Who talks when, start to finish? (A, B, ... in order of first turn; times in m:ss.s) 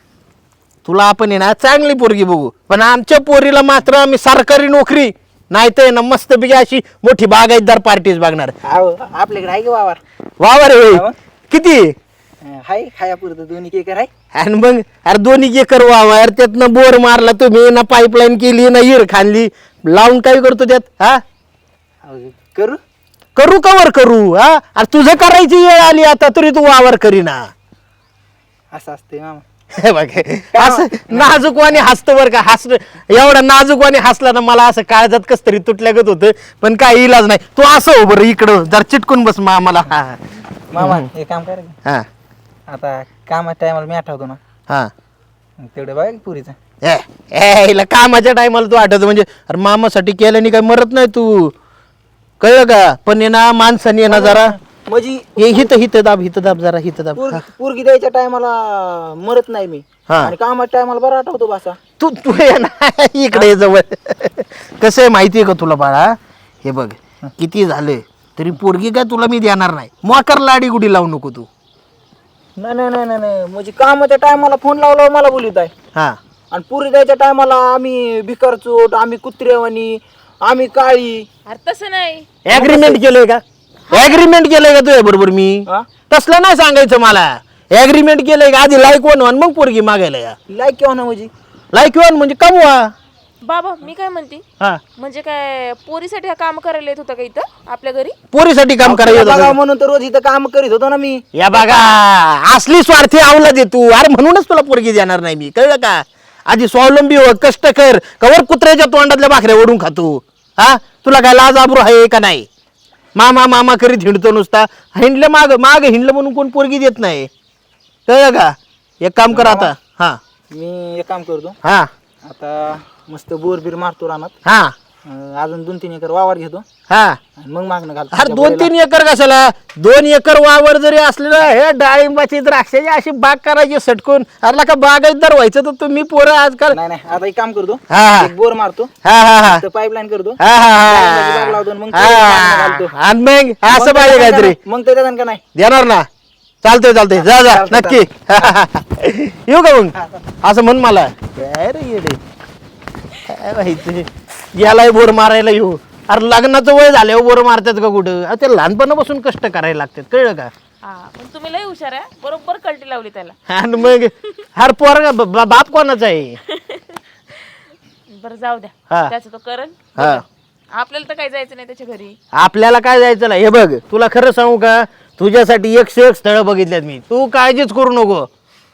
0:00.8-0:08.6 A
0:08.6-0:10.0 B
0:10.4-0:11.9 A
0:12.4-0:14.1 B
0:14.3-0:21.2 A
0:22.0-0:22.8 B
0:23.4-0:27.5 A
0:28.7-0:29.4 B
0:29.8-0:40.2 A
0:30.5-0:31.8 B
0:40.7-0:41.8 B
0:40.8-0:41.1 A
0:42.7-0:44.4 B
0:45.6-0:46.6 B
0:46.8-0:51.5 A
0:52.4-0:54.5 A
0:54.1-0:55.7 B
0:55.4-0:57.4 A
0:57.2-1:01.8 B
1:00.1-1:00.3 A
1:02.0-1:11.5 A
1:12.6-1:15.7 B
1:16.5-1:21.3 B
1:21.4-1:22.3 C
1:22.4-1:30.4 A
1:22.5-1:23.0 B
1:23.9-1:24.3 C
1:30.5-1:31.3 B
1:31.7-1:32.9 A
1:33.4-1:34.4 C
1:35.0-1:38.2 C
1:38.3-1:39.5 A
1:38.8-1:41.2 B
1:41.3-1:52.5 A
1:53.2-1:57.3 A
1:58.1-2:00.2 A
1:59.3-1:59.7 B
2:00.5-2:01.6 B
2:01.6-2:01.9 A
2:02.2-2:04.3 B
2:04.4-2:04.7 A
2:05.0-2:06.6 B
2:06.9-2:07.2 A
2:07.4-2:08.7 B
2:08.1-2:16.8 A
2:16.7-2:18.9 B
2:17.9-2:18.3 A
2:19.0-2:19.6 A
2:19.4-2:22.9 B
2:20.4-2:24.6 A
2:23.7-2:25.4 B
2:25.5-2:26.0 A
2:26.6-2:32.2 A
2:27.2-2:28.6 B
2:33.2-2:40.5 A
2:40.8-2:44.0 C
2:43.5-2:46.4 A
2:46.5-2:47.5 C
2:48.1-2:52.2 C
2:50.0-2:50.2 A
2:52.3-2:58.3 A